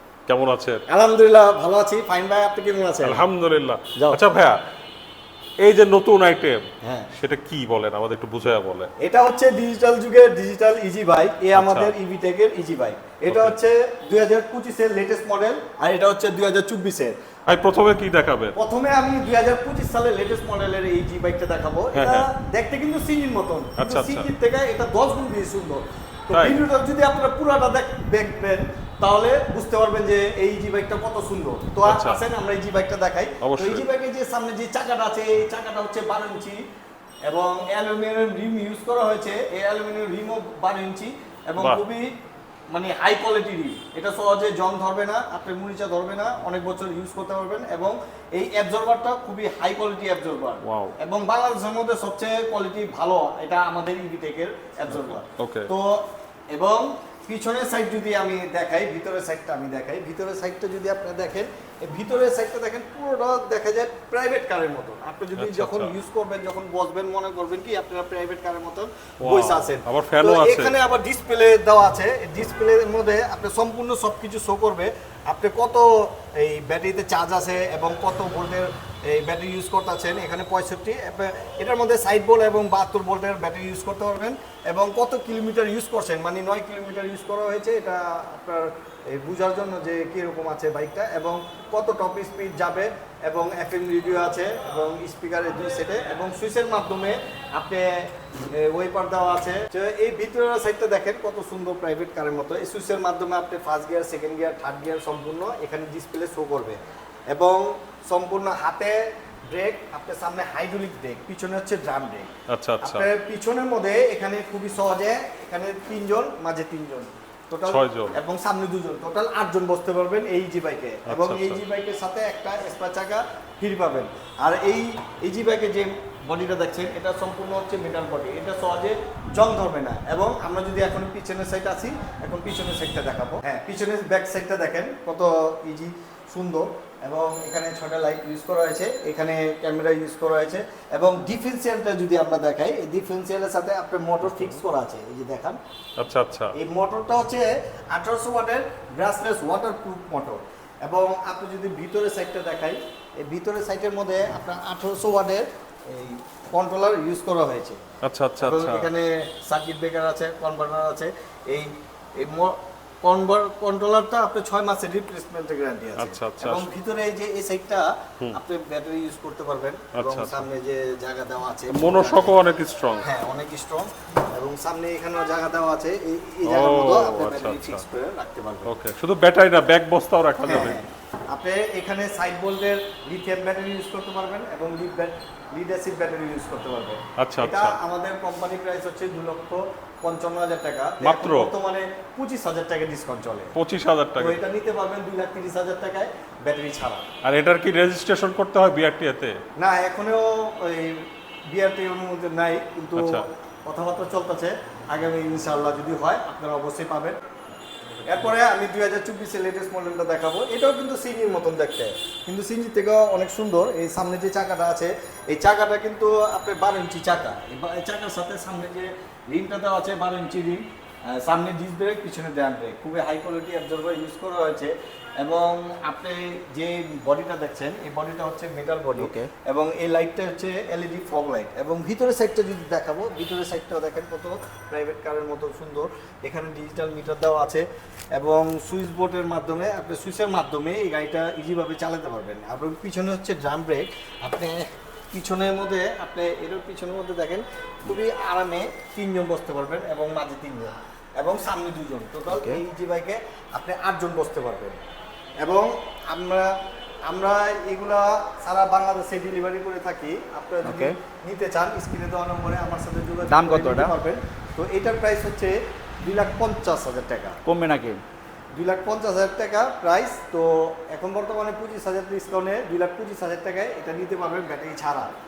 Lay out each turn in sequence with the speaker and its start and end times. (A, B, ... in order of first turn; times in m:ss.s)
0:00.3-0:00.8 A
0:00.9-0:03.2 B
0:03.0-0:04.6 A
0:03.9-0:04.2 B
0:05.6-0:08.9 A
0:06.8-0:07.1 B
0:09.0-0:17.2 B
0:11.5-0:11.9 A
0:13.3-0:13.6 A
0:17.5-0:18.5 A
0:18.5-0:36.6 B
0:21.9-0:22.3 A
0:23.8-0:24.3 A
0:26.3-0:26.6 A
0:31.8-0:32.2 A
0:33.4-0:33.8 A
0:37.2-0:42.1 B
0:41.6-0:41.8 A
0:42.7-1:46.8 B
0:50.6-0:51.0 A
0:54.9-0:55.7 A
1:05.4-1:05.9 A
1:09.2-1:10.7 A
1:47.3-2:25.6 B
1:52.5-1:53.1 A
1:57.6-1:58.2 A
2:01.1-2:01.6 A
2:24.2-2:24.6 A
2:26.0-2:26.5 A
2:26.5-2:37.8 B
2:38.0-2:38.9 A
2:38.4-2:52.4 B
2:46.0-2:46.7 A
2:50.0-2:50.5 A
2:51.7-2:53.1 A
2:53.0-2:58.7 B
2:56.4-2:57.8 A
2:58.6-3:00.8 A
3:00.4-3:13.5 B
3:07.2-3:07.8 A
3:11.0-3:11.5 A
3:13.5-3:14.4 A
3:14.2-3:17.0 B
3:17.2-3:19.4 A
3:19.6-3:27.2 B
3:23.0-3:23.2 A
3:28.0-3:57.6 B
3:49.0-3:49.3 C
3:58.1-4:14.8 B
4:12.3-4:12.6 C
4:15.4-4:16.5 B
4:17.1-4:27.4 B
4:20.6-4:21.0 C
4:23.3-4:23.9 C
4:27.4-4:28.0 C
4:28.6-4:35.1 B